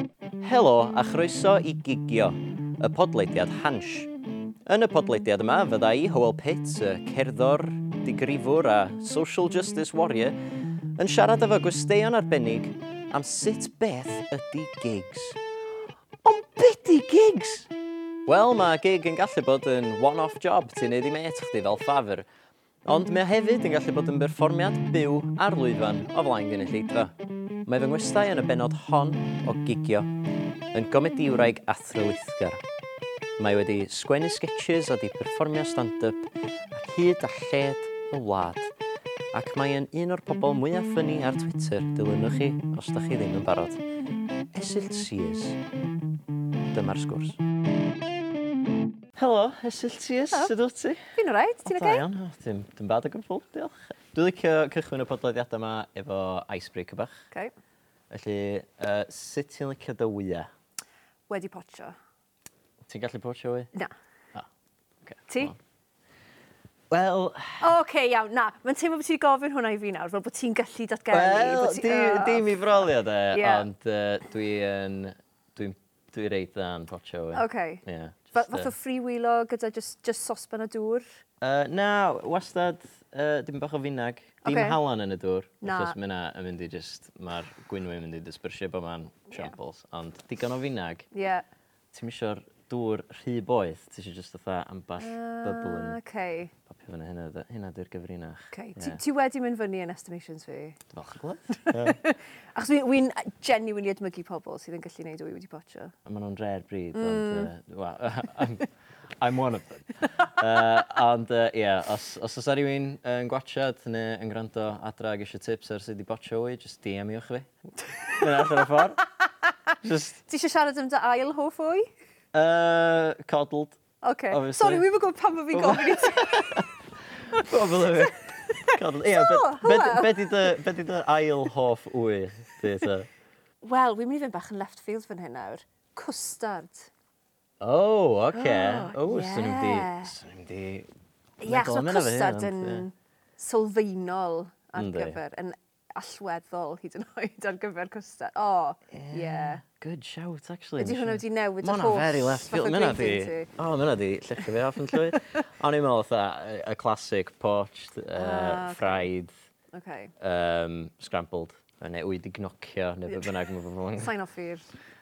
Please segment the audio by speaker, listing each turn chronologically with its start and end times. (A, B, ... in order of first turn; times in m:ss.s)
0:00.4-0:04.1 A
0:04.7-0:10.4 A
0:11.0-0:15.4 A
0:16.2-0:17.7 A
0:18.3-0:22.3 A
0:22.8-0:27.1 A
0:27.7-0:30.1 A
0:30.7-0:32.6 A
0:33.4-0:38.7 A
0:39.3-0:43.8 A
0:44.5-0:45.6 A
0:46.7-0:47.4 A
0:49.2-0:51.1 A
0:51.1-0:52.1 B
0:51.6-0:57.3 A
0:58.1-1:00.5 A
1:01.3-1:02.0 B
1:02.9-1:03.7 A
1:05.0-1:05.6 A
1:05.3-1:05.6 B
1:06.9-1:07.7 A
1:07.6-1:13.7 B
1:11.1-1:18.7 A
1:17.3-1:21.2 B
1:21.4-1:31.1 A
1:24.4-1:24.8 B
1:25.6-1:26.0 B
1:31.1-1:31.4 B
1:31.9-1:36.0 A
1:35.0-1:36.5 B
1:36.7-1:39.0 A
1:38.5-1:40.8 B
1:40.9-1:42.0 A
1:41.5-1:46.0 B
1:46.1-1:57.5 A
1:46.9-1:47.5 B
1:57.9-1:59.0 B
1:58.1-1:59.0 A
1:59.8-2:00.2 A
2:00.3-2:01.9 B
2:02.3-2:04.9 A
2:04.0-2:06.6 B
2:05.5-2:13.1 A
2:07.3-2:10.5 B
2:13.6-2:16.9 B
2:17.6-2:20.9 A
2:18.3-2:20.2 B
2:21.4-2:29.6 B
2:21.4-2:22.9 A
2:24.8-2:25.2 A
2:28.9-2:39.3 A
2:30.8-2:33.5 B
2:38.2-2:39.1 B
2:39.7-2:40.1 B
2:40.2-2:44.1 A
2:44.0-2:44.7 B